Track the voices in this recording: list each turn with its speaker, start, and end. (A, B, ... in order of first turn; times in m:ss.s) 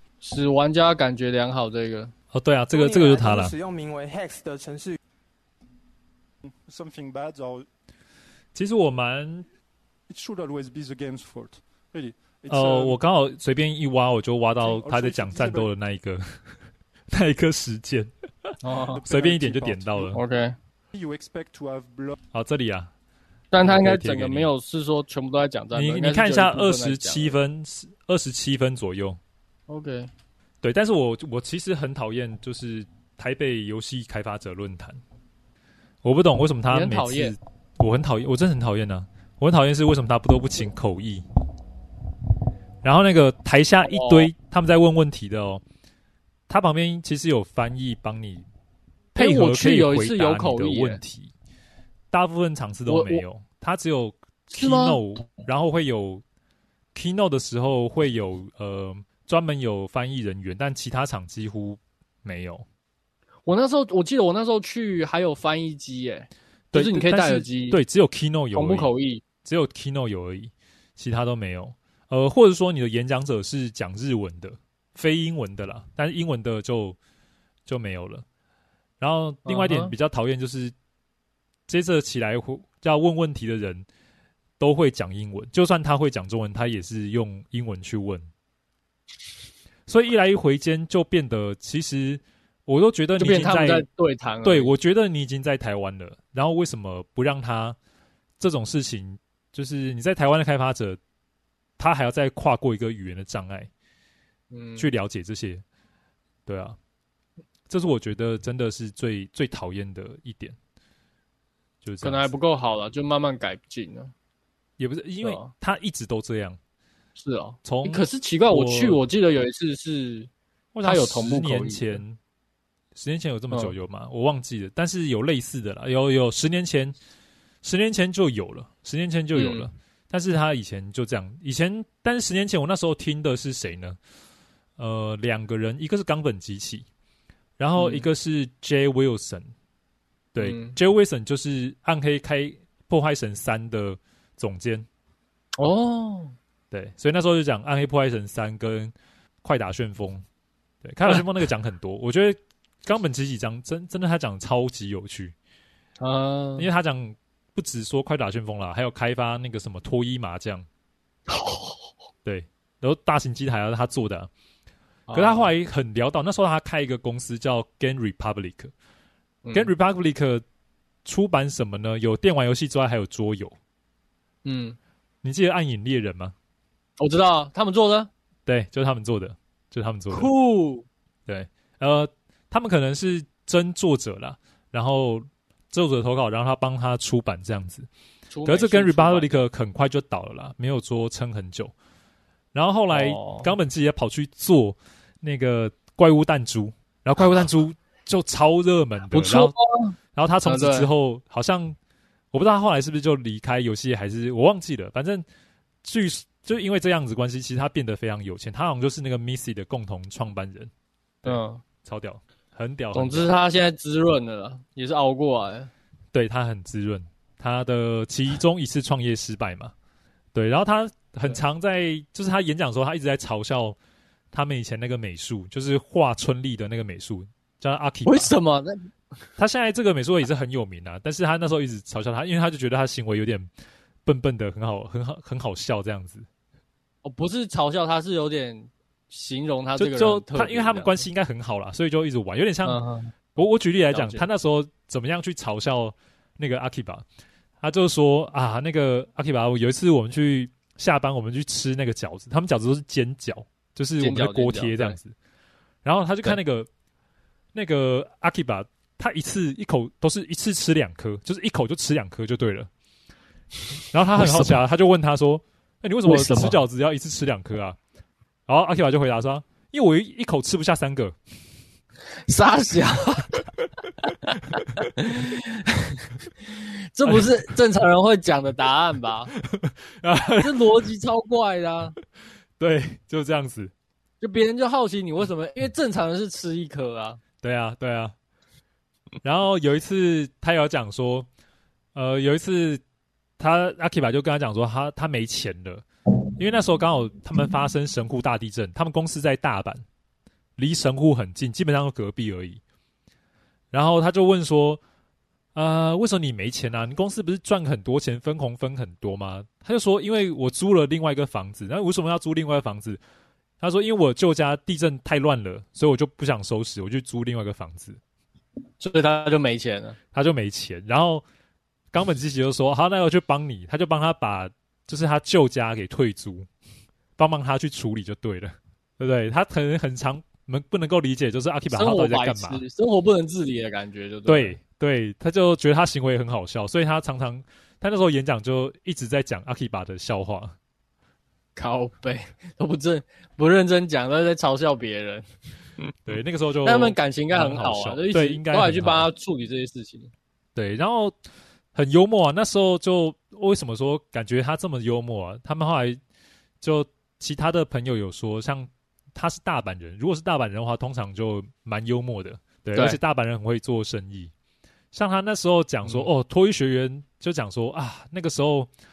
0:00.2-0:02.1 A
0:02.3-0:03.5 B
0:02.7-0:05.0 C
0:06.4-0:07.6 D
0:08.5-0:09.5 B
0:10.1-0:13.0 D
0:12.5-0:16.2 B
0:14.6-0:15.7 D
0:17.1-0:20.2 B
0:18.6-0:19.1 A
0:18.9-0:20.2 D
0:20.1-0:20.5 A
0:20.9-0:22.1 D
0:22.3-0:22.9 B
0:23.5-0:27.4 A
0:23.6-0:24.5 B
0:25.7-0:29.2 B
0:29.7-0:30.1 A
0:30.6-0:35.0 B
0:36.0-0:41.2 B
0:36.7-0:37.3 A
0:42.8-0:45.6 B
0:43.8-0:44.3 A
0:46.5-0:48.5 B
0:49.1-0:51.0 A
0:49.1-0:51.3 B
0:52.1-0:56.2 B
0:52.9-0:53.2 A
0:54.5-0:55.0 A
0:56.9-1:02.6 B
1:03.4-1:07.8 A
1:06.7-1:08.9 B
1:08.5-1:09.2 A
1:09.4-1:17.0 B
1:17.7-1:18.2 B
1:19.0-1:20.7 B
1:19.4-1:19.9 A
1:21.7-1:23.8 B
1:24.6-1:28.3 B
1:29.9-1:33.8 B
1:33.2-1:34.7 A
1:34.4-1:37.8 B
1:38.4-1:41.0 B
1:41.8-1:43.7 B
1:44.5-1:44.9 A
1:44.8-1:45.6 B
1:46.4-1:46.8 B
1:47.7-1:50.6 B
1:51.8-1:52.3 B
1:52.0-1:54.1 A
1:54.8-1:56.6 B
1:55.2-1:55.5 A
1:57.2-2:00.3 A
1:57.6-1:59.0 B
2:00.7-2:02.2 B
2:00.8-2:02.0 A
2:02.9-2:07.0 B
2:07.6-2:14.0 B
2:09.3-2:09.7 A
2:14.8-2:16.9 B
2:17.6-2:19.5 B
2:17.8-2:18.1 A
2:20.3-2:24.9 B
2:20.4-2:20.8 A
2:25.6-2:26.3 A
2:26.7-2:30.2 B
2:30.8-2:35.3 B
2:36.0-2:36.7 A
2:36.6-2:40.6 B
2:41.3-2:41.8 A
2:42.2-2:44.3 B
2:45.1-2:45.5 A
2:45.1-2:48.7 B
2:49.4-2:49.7 A
2:49.5-2:50.4 B
2:51.0-2:53.6 B
2:54.4-2:54.8 A
2:55.2-2:56.3 B
2:57.0-2:58.1 A
2:58.4-3:00.3 B
3:00.1-3:00.8 A
3:01.3-3:07.9 B
3:08.3-3:09.4 A
3:08.4-3:11.7 B
3:12.5-3:19.5 B
3:12.9-3:13.5 A
3:19.1-3:20.9 A
3:20.2-3:21.8 B
3:22.3-3:25.2 B
3:25.8-3:30.7 B
3:31.2-3:33.3 B
3:31.2-3:31.6 A
3:32.9-3:35.7 A
3:36.1-3:39.7 B
3:40.3-3:43.8 B
3:44.3-3:48.3 B
3:48.0-3:48.9 A
3:49.4-3:53.5 B
3:54.0-3:56.3 B
3:57.0-4:01.0 A
3:59.8-4:02.8 B
4:02.6-4:03.1 A
4:03.3-4:07.0 B
4:03.9-4:04.2 A
4:07.6-4:15.1 B
4:14.0-4:15.0 A
4:15.8-4:16.7 B
4:17.5-4:22.7 B
4:23.9-4:27.8 B
4:24.2-4:24.5 A
4:26.0-4:26.6 A
4:28.5-4:31.2 B
4:32.2-4:33.4 A
4:34.4-4:35.9 A
4:36.6-4:39.3 A
4:39.3-4:40.6 B
4:40.4-4:42.0 A
4:42.6-4:43.7 B
4:44.2-4:47.2 A
4:47.4-4:48.1 B
4:49.2-4:51.3 B
4:51.9-4:52.8 B
4:53.4-4:55.8 B
4:56.4-4:59.8 B
5:00.6-5:02.6 B
5:03.7-5:04.8 B
5:05.5-5:13.0 B
5:13.6-5:18.0 B
5:18.8-5:20.0 A
5:20.1-5:21.2 B
5:21.9-5:26.5 B
5:27.2-5:32.6 B
5:31.7-5:34.6 A
5:34.3-5:40.5 B
5:41.6-5:45.2 A
5:46.0-5:49.1 B
5:46.6-5:50.1 A
5:50.5-5:51.1 B
5:51.7-5:56.0 B
5:56.6-6:04.3 B
6:04.9-6:08.7 B